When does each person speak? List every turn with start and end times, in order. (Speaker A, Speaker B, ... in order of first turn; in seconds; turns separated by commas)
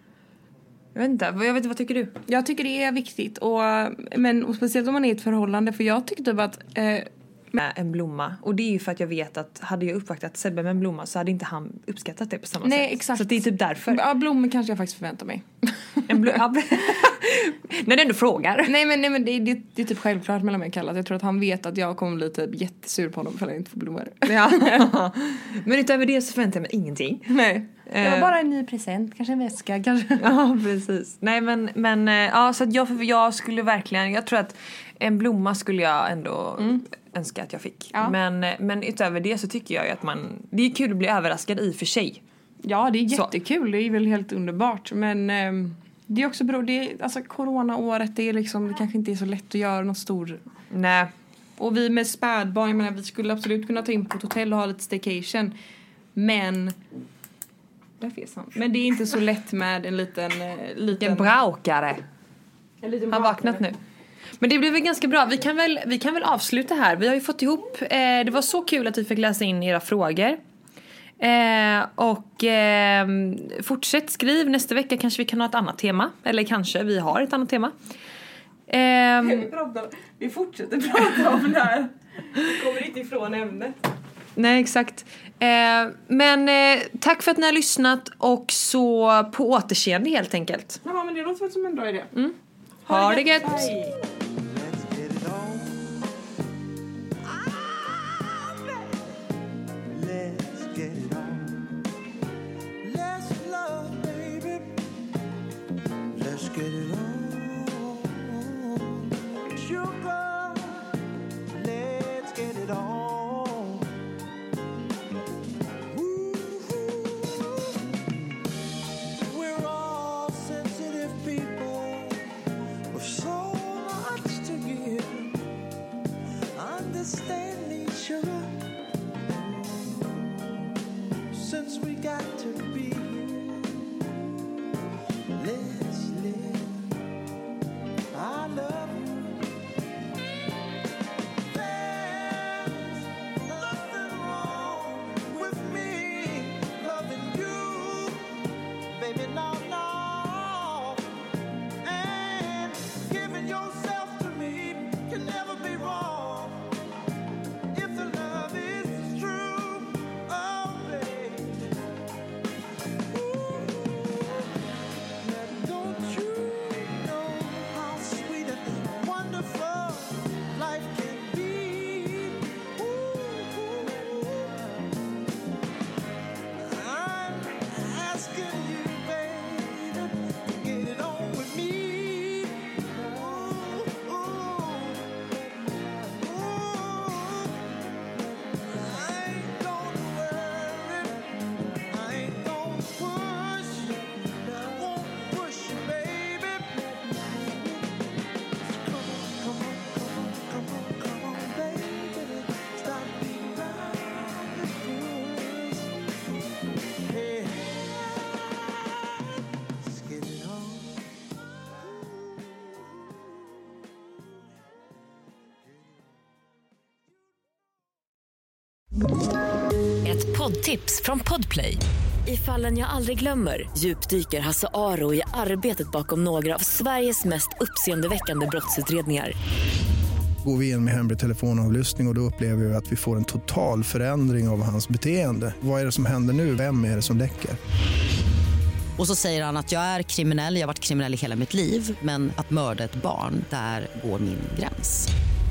Speaker A: 0.9-2.2, Speaker B: 2.3-7.6, Speaker A: 7.6-14.0, Speaker B: 12.6-16.4, Speaker A: 16.1-18.7, Speaker B: 18.6-24.9, Speaker A: 24.2-27.3, Speaker B: 27.3-30.3, Speaker A: 27.9-28.3, Speaker A: 30.2-42.2, Speaker B: 42.6-50.4, Speaker A: 50.7-51.1, Speaker B: 51.6-55.5, Speaker B: 56.1-56.8, Speaker B: 58.0-61.3, Speaker A: 61.0-62.0, Speaker B: 62.8-63.6, Speaker A: 63.1-63.8, Speaker A: 64.4-70.4, Speaker A: 71.2-77.7, Speaker A: 78.7-79.5, Speaker B: 79.2-83.7, Speaker A: 84.3-90.8, Speaker B: 90.8-92.1, Speaker A: 92.9-93.8, Speaker B: 92.9-93.9, Speaker C: 94.4-96.1, Speaker C: 97.2-98.9, Speaker C: 99.9-101.8, Speaker C: 102.8-104.8, Speaker C: 106.1-113.9, Speaker C: 115.9-117.9, Speaker C: 119.1-122.3, Speaker C: 122.9-125.5, Speaker C: 126.5-128.7, Speaker C: 129.3-130.4, Speaker C: 131.3-134.1, Speaker C: 135.3-137.0, Speaker C: 138.1-139.5, Speaker C: 141.4-151.1, Speaker C: 151.8-156.8, Speaker C: 157.7-161.8, Speaker C: 163.1-164.6, Speaker C: 165.2-174.9, Speaker C: 176.6-187.8, Speaker C: 188.5-198.0, Speaker C: 198.6-209.2, Speaker C: 209.8-211.0, Speaker C: 212.0-212.8, Speaker D: 220.0-229.3, Speaker E: 230.4-237.6, Speaker F: 239.0-245.1